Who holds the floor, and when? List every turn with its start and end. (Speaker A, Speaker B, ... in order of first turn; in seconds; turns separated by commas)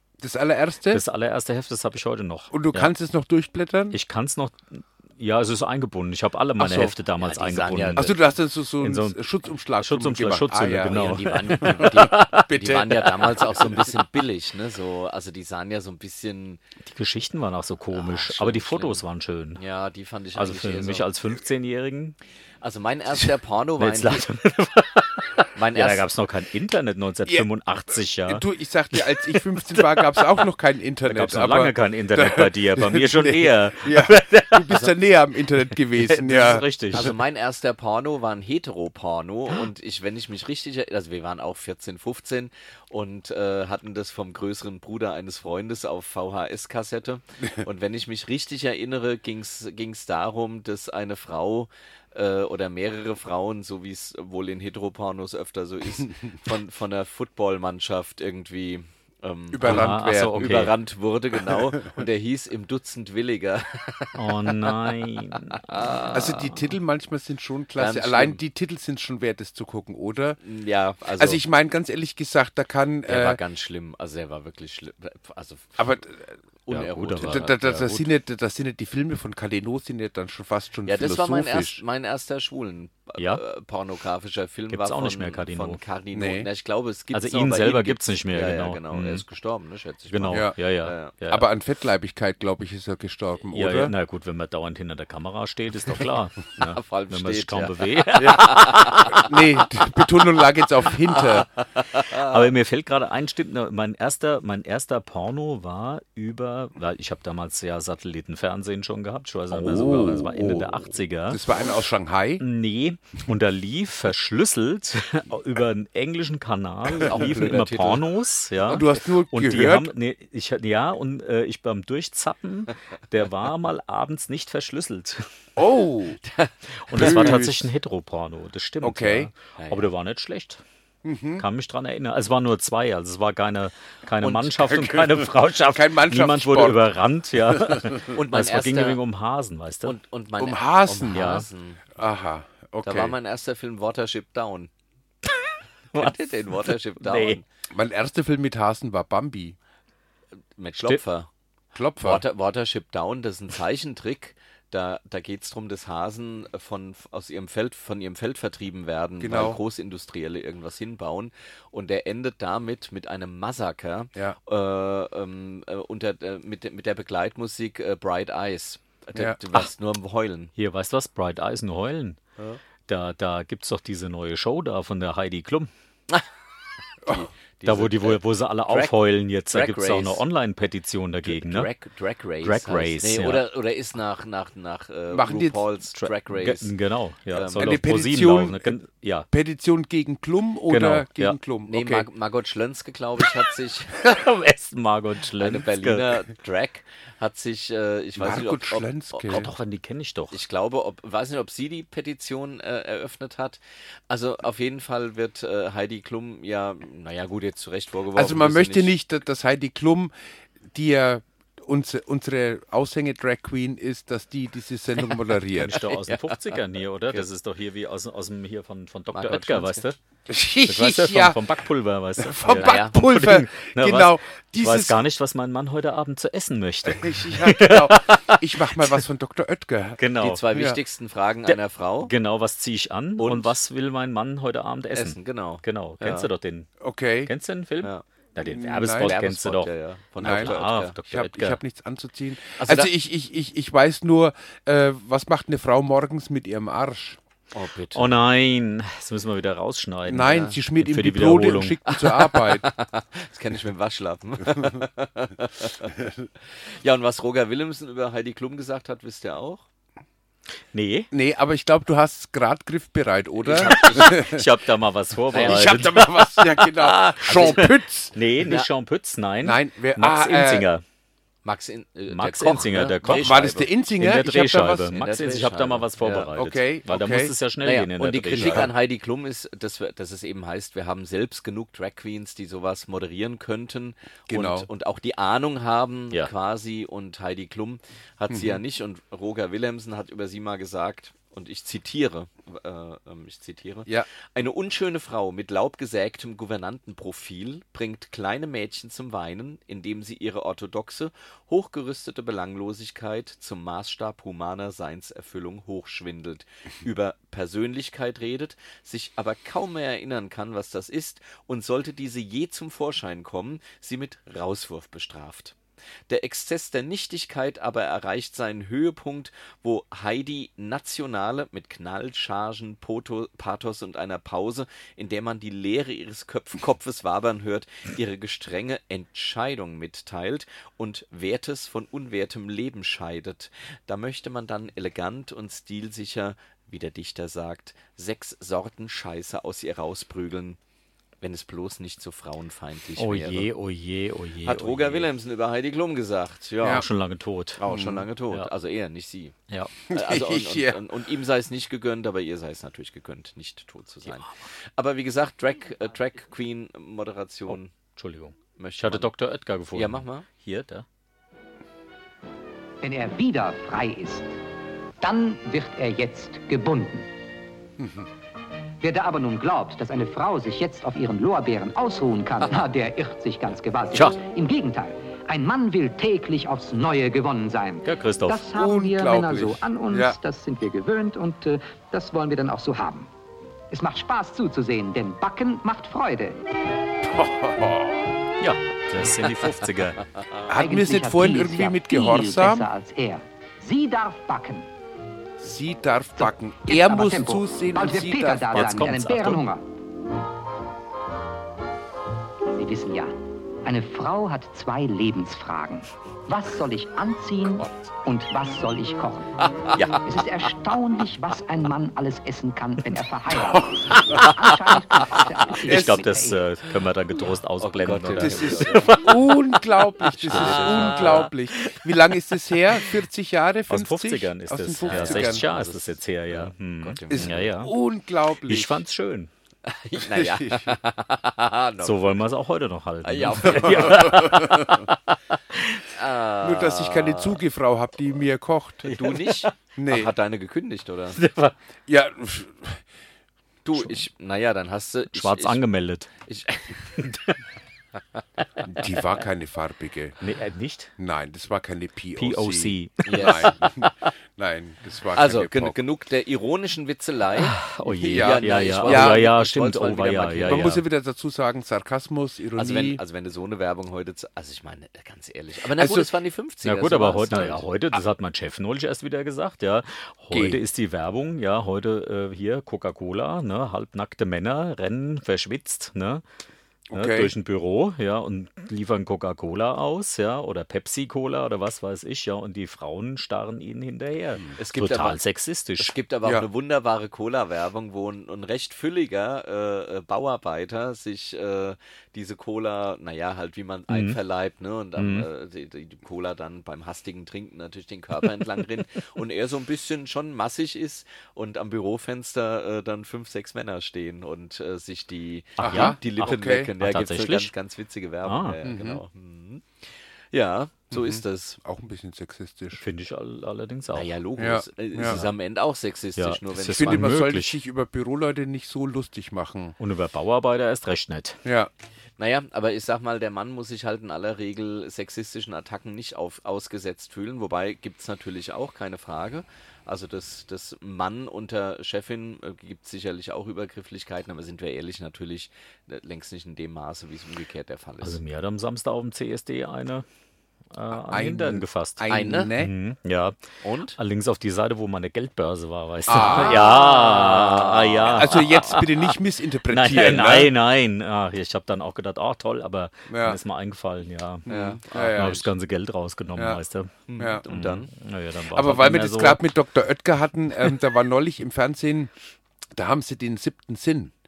Speaker A: 0.2-1.0, Speaker B: 0.9-2.9, Speaker A: 2.5-4.0, Speaker B: 3.9-8.2, Speaker A: 6.6-6.9, Speaker C: 7.2-8.1, Speaker A: 8.0-12.2, Speaker B: 8.8-9.2, Speaker B: 9.8-13.3, Speaker C: 10.9-16.6, Speaker B: 16.9-19.6, Speaker C: 17.9-19.0, Speaker C: 19.6-21.1, Speaker B: 20.4-22.2, Speaker C: 22.6-24.2, Speaker B: 23.8-30.1, Speaker C: 25.6-26.1, Speaker A: 28.2-37.0, Speaker B: 31.1-34.8, Speaker B: 36.0-37.1, Speaker C: 36.9-66.2, Speaker A: 59.5-60.7, Speaker B: 59.6-60.7, Speaker B: 64.2-66.6, Speaker A: 66.1-70.4, Speaker C: 67.8-68.4, Speaker C: 70.4-71.4, Speaker A: 71.2-73.4, Speaker C: 73.1-75.8, Speaker A: 75.8-76.3, Speaker C: 76.7-78.0, Speaker B: 76.7-77.5, Speaker A: 77.2-81.8, Speaker C: 80.9-91.1, Speaker B: 84.7-85.8, Speaker A: 86.1-86.5, Speaker B: 87.1-89.2, Speaker B: 90.1-91.5, Speaker A: 90.3-90.6, Speaker A: 91.3-93.9, Speaker B: 93.5-99.1, Speaker C: 96.7-99.3, Speaker A: 99.2-101.5, Speaker C: 101.1-102.4, Speaker B: 102.2-111.4, Speaker A: 109.5-112.5, Speaker B: 112.4-125.3, Speaker C: 116.9-118.0, Speaker A: 118.7-119.9, Speaker A: 125.6-126.2, Speaker C: 126.2-127.4, Speaker B: 126.8-130.6, Speaker A: 127.0-127.6, Speaker A: 128.8-129.3, Speaker C: 129.6-129.9, Speaker A: 131.0-131.5, Speaker B: 131.4-140.0, Speaker C: 134.2-134.8, Speaker A: 134.8-136.8, Speaker C: 138.1-139.0, Speaker C: 139.8-141.9, Speaker A: 140.4-141.3, Speaker B: 141.1-141.5, Speaker A: 141.9-143.1, Speaker C: 142.8-144.7, Speaker C: 145.9-147.4, Speaker B: 147.0-147.4, Speaker A: 147.7-149.6, Speaker C: 150.6-151.3, Speaker A: 151.7-152.2, Speaker C: 152.0-170.5, Speaker A: 159.2-159.6, Speaker B: 170.6-172.2, Speaker B: 172.9-175.7, Speaker C: 177.0-180.2, Speaker B: 177.6-181.7, Speaker C: 181.2-186.7, Speaker B: 182.4-183.4, Speaker A: 185.1-185.6, Speaker B: 185.9-189.3, Speaker C: 187.3-187.8, Speaker A: 187.6-192.1, Speaker B: 190.7-191.4, Speaker C: 191.7-194.0, Speaker B: 194.0-196.2, Speaker C: 195.4-199.5, Speaker A: 198.2-199.5, Speaker B: 199.3-200.4, Speaker C: 200.3-208.9, Speaker A: 208.2-210.1, Speaker A: 210.7-215.8, Speaker B: 215.5-220.0, Speaker C: 215.7-216.6, Speaker C: 219.1-219.8, Speaker A: 220.3-221.4, Speaker B: 220.7-229.0, Speaker A: 222.2-225.0, Speaker C: 222.5-223.0, Speaker A: 226.9-230.8, Speaker B: 230.0-230.4, Speaker C: 230.2-232.1, Speaker B: 231.5-236.7, Speaker C: 233.2-233.6, Speaker C: 234.9-236.3, Speaker A: 236.8-237.3, Speaker B: 237.2-241.6, Speaker A: 238.4-239.2, Speaker C: 239.0-241.0, Speaker A: 240.2-247.2, Speaker C: 242.6-242.9, Speaker C: 247.5-248.2, Speaker B: 247.9-251.8, Speaker A: 250.1-252.7, Speaker C: 250.2-250.6, Speaker C: 251.9-256.0, Speaker C: 256.6-259.6, Speaker B: 260.7-261.1, Speaker A: 261.1-264.4, Speaker C: 263.4-264.2, Speaker B: 263.5-270.8, Speaker C: 265.3-266.0, Speaker A: 265.3-268.2, Speaker C: 267.1-267.6, Speaker A: 269.4-270.7, Speaker C: 271.4-273.7, Speaker B: 272.1-278.7, Speaker A: 273.1-274.9, Speaker C: 274.9-276.3, Speaker A: 276.4-277.4, Speaker C: 277.6-315.6, Speaker A: 278.4-278.7, Speaker A: 284.3-284.7, Speaker A: 288.3-288.6, Speaker C: 316.1-340.6, Speaker C: 341.2-343.5, Speaker B: 343.0-345.1, Speaker C: 344.4-346.9, Speaker B: 346.6-347.6, Speaker C: 347.6-349.4, Speaker A: 347.7-348.1, Speaker A: 349.9-350.8, Speaker C: 349.9-357.7, Speaker B: 357.5-360.9, Speaker C: 358.6-359.1, Speaker C: 359.7-360.3, Speaker D: 362.8-364.4, Speaker D: 365.0-367.1, Speaker A: 367.8-368.1, Speaker D: 368.8-383.1, Speaker B: 377.8-378.5, Speaker A: 378.6-380.2, Speaker D: 383.7-386.4, Speaker A: 387.1-388.0, Speaker B: 388.4-390.1, Speaker A: 390.5-392.7, Speaker D: 390.5-394.7, Speaker A: 395.4-398.7, Speaker D: 396.2-399.6, Speaker B: 398.5-399.4, Speaker D: 402.6-409.3, Speaker C: 409.7-410.1, Speaker D: 410.0-416.5, Speaker B: 415.6-419.6, Speaker C: 417.6-419.1, Speaker A: 418.2-425.5, Speaker C: 420.1-421.3, Speaker B: 420.1-421.3, Speaker B: 423.7-427.8, Speaker C: 424.9-427.6, Speaker A: 427.1-428.8, Speaker B: 428.4-429.3, Speaker C: 429.7-432.2, Speaker A: 430.0-430.8, Speaker B: 431.8-434.9, Speaker C: 433.0-435.0, Speaker B: 435.5-435.8, Speaker C: 435.9-437.4, Speaker A: 436.4-439.0, Speaker B: 438.9-439.5, Speaker C: 438.9-441.2, Speaker A: 439.8-440.1, Speaker B: 441.2-441.6, Speaker A: 441.9-442.8, Speaker C: 443.6-445.6, Speaker B: 445.1-446.1, Speaker C: 446.3-447.3, Speaker A: 448.7-450.2, Speaker B: 450.2-450.9, Speaker A: 451.0-455.8, Speaker B: 452.2-453.5, Speaker C: 453.0-453.9, Speaker C: 455.1-460.8, Speaker B: 457.3-460.9, Speaker A: 458.0-459.3, Speaker A: 460.5-463.0, Speaker C: 462.6-467.7, Speaker A: 465.8-466.1, Speaker B: 466.6-476.2, Speaker A: 470.3-470.6, Speaker A: 476.9-477.3, Speaker B: 476.9-485.9, Speaker C: 484.6-485.2, Speaker C: 485.8-511.6, Speaker B: 493.9-494.2, Speaker B: 495.0-495.3, Speaker A: 505.6-506.7, Speaker B: 505.6-507.5, Speaker B: 508.2-508.6, Speaker A: 508.6-509.0, Speaker A: 510.9-512.8, Speaker B: 512.8-514.1, Speaker C: 513.9-517.1, Speaker A: 514.4-515.2, Speaker B: 516.2-517.6, Speaker A: 516.7-519.8, Speaker B: 519.8-521.4, Speaker A: 521.5-521.7, Speaker C: 522.2-538.2, Speaker B: 538.0-540.1, Speaker B: 540.7-549.1, Speaker A: 540.9-542.7, Speaker C: 542.1-542.5, Speaker C: 543.6-544.0, Speaker A: 546.1-547.1, Speaker C: 546.1-548.8, Speaker A: 548.0-550.5, Speaker B: 549.7-556.9, Speaker A: 553.1-553.4, Speaker A: 554.5-555.5, Speaker C: 554.5-555.4, Speaker A: 556.4-556.6, Speaker C: 557.1-557.9, Speaker A: 557.2-557.4, Speaker B: 557.5-559.4, Speaker A: 558.5-562.1, Speaker A: 562.8-564.1